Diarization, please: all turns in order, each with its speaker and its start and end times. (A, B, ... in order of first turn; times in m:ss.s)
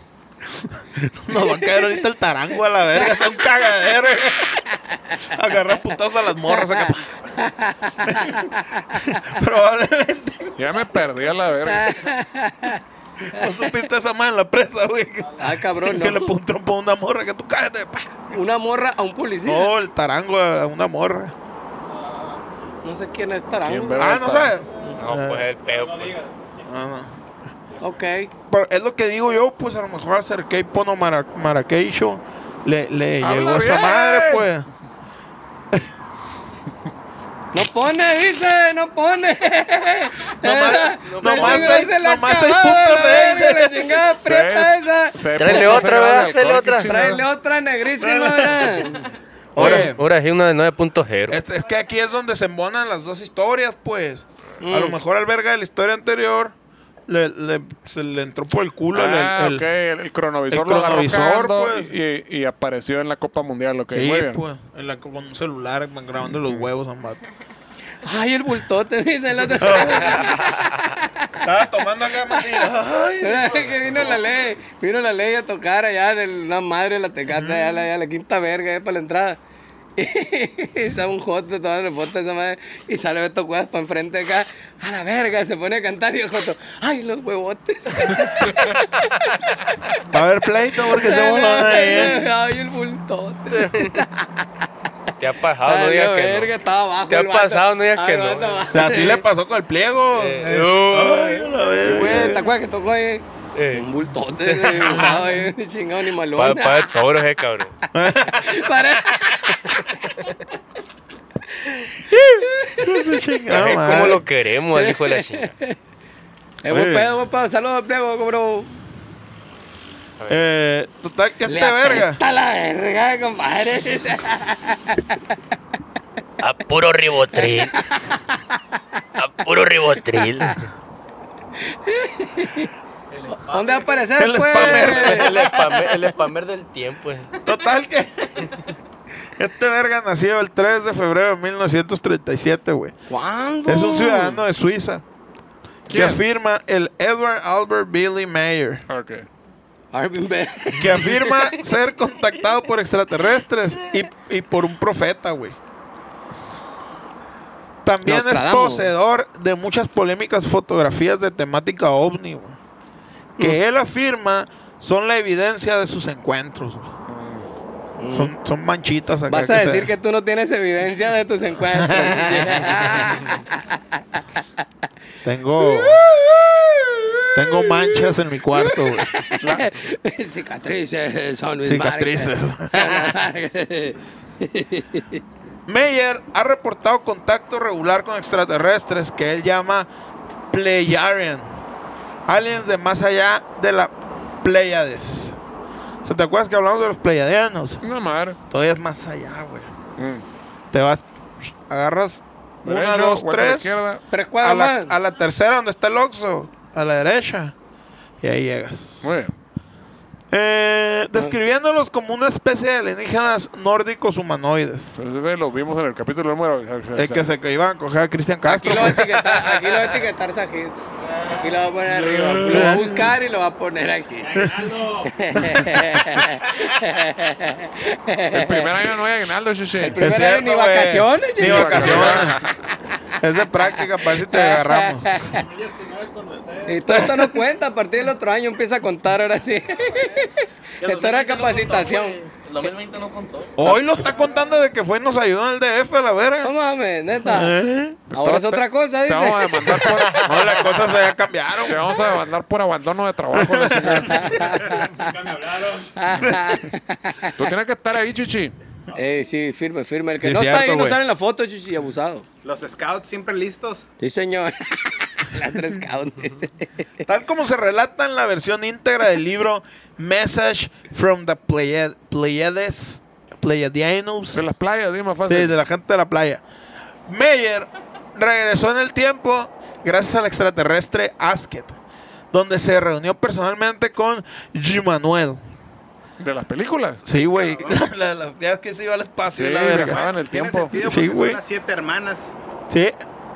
0:00.4-0:04.6 A
0:05.2-0:07.4 A
0:06.5-0:09.2 B
0:08.0-0:10.6 A
0:10.6-0:12.0 C
0:11.6-0:12.8 B
0:13.2-0:18.1 A
0:15.4-0:16.3 B
0:18.3-0:19.7 B
0:19.4-0:21.3 A
0:22.0-0:22.4 D
0:22.8-0:24.2 B
0:23.6-0:24.6 C
0:24.0-0:25.5 A
0:25.0-0:26.2 E
0:25.6-0:26.6 D
0:26.6-0:27.1 A
0:27.8-0:28.3 B
0:28.5-0:34.7 A
0:33.2-0:34.5 C
0:37.5-0:45.8 B
0:40.4-0:44.0 A
0:41.1-0:41.8 E
0:44.2-0:47.2 C
0:45.4-0:47.1 E
0:46.8-0:49.0 B
0:48.0-0:48.9 A
0:49.5-0:50.0 A
0:49.6-0:51.4 E
0:51.3-0:56.5 A
0:54.6-0:55.0 B
0:57.1-0:59.6 A
0:58.9-1:04.4 C
1:00.5-1:01.9 A
1:03.9-1:07.2 A
1:06.4-1:06.7 C
1:08.0-1:11.4 B
1:09.6-1:10.5 A
1:11.4-1:13.7 A
1:12.3-1:12.6 B
1:13.2-1:19.4 B
1:17.3-1:17.8 A
1:20.0-1:29.4 B
1:30.1-1:32.3 A
1:30.9-1:34.5 B
1:33.5-1:34.0 E
1:35.2-1:36.5 E
1:35.6-1:39.2 B
1:37.1-1:38.9 E
1:38.7-1:42.5 A
1:40.1-1:41.5 E
1:41.8-1:46.9 B
1:43.5-1:43.8 E
1:44.4-1:45.2 E
1:44.9-1:45.3 A
1:46.3-1:47.7 E
1:47.9-1:48.9 A
1:48.2-1:49.8 B
1:51.6-1:52.9 B
1:52.8-1:54.2 A
1:53.5-1:55.5 E
1:54.7-1:55.8 B
1:56.6-1:58.7 B
1:56.7-1:57.1 A
2:00.3-2:02.2 A
2:01.4-2:05.2 B
2:06.4-2:07.8 E
2:07.3-2:08.4 B
2:09.2-2:10.6 E
2:11.6-2:12.7 B
2:13.1-2:14.1 D
2:13.4-2:15.3 B
2:14.2-2:16.1 A
2:14.6-2:17.3 E
2:17.4-2:18.6 A
2:19.4-2:22.9 A
2:23.1-2:24.4 B
2:23.6-2:25.0 A
2:25.9-2:26.2 C
2:25.9-2:28.8 A
2:28.9-2:29.2 C
2:29.9-2:31.6 B
2:30.8-2:35.6 A
2:37.8-2:42.6 A
2:38.0-2:38.9 B
2:43.4-2:46.9 A
2:47.1-2:47.5 C
2:48.0-2:48.3 B
2:48.1-2:49.9 A
2:49.3-2:54.4 B
2:51.7-2:52.9 A
2:55.2-2:56.1 A
2:55.6-3:05.2 B
2:57.3-2:59.2 A
2:59.4-2:59.7 C
3:01.6-3:03.2 A
3:05.7-3:09.9 A
3:10.5-3:11.5 A
3:12.3-3:15.4 A
3:16.0-3:17.8 A
3:17.8-3:18.4 C
3:18.5-3:19.7 A
3:20.0-3:20.2 C
3:20.7-3:23.8 A
3:22.6-3:24.0 C
3:24.1-3:25.0 B
3:24.4-3:27.5 A
3:28.2-3:29.0 A
3:29.0-3:29.3 C
3:30.3-3:35.0 A
3:35.0-3:37.3 C
3:36.9-3:39.2 A
3:38.4-3:48.7 B
3:39.3-3:39.6 E
3:41.0-3:41.6 D
3:42.2-3:42.6 C
3:42.4-3:43.1 A
3:44.2-3:45.4 D
3:45.4-3:46.1 A
3:48.3-3:50.0 C
3:49.8-3:52.3 B
3:50.0-3:52.4 A
3:51.4-3:52.5 C
3:53.2-3:55.2 A
3:54.3-3:55.4 B
3:55.3-3:57.1 D
3:56.6-4:02.2 B
3:56.8-3:57.4 A
4:00.8-4:03.6 D
4:03.6-4:06.5 A
4:06.4-4:07.6 B
4:07.2-4:08.0 A
4:08.1-4:10.8 C
4:08.1-4:09.9 B
4:10.1-4:12.0 A
4:11.7-4:14.6 C
4:13.3-4:14.4 A
4:14.0-4:15.1 B
4:14.6-4:15.9 D
4:15.9-4:17.4 B
4:17.4-4:18.5 C
4:18.9-4:22.2 B
4:20.2-4:21.0 A
4:22.4-4:23.8 F
4:24.0-4:26.9 B
4:27.0-4:34.4 A
4:34.3-4:35.6 C
4:35.2-4:36.4 A
4:37.1-4:41.8 A
4:42.3-4:45.4 A
4:46.2-4:47.0 C
4:47.0-4:50.0 A
4:47.3-4:47.8 F
4:49.3-4:50.7 C
4:49.9-4:52.3 F
4:50.7-4:51.4 A
4:52.7-4:52.9 A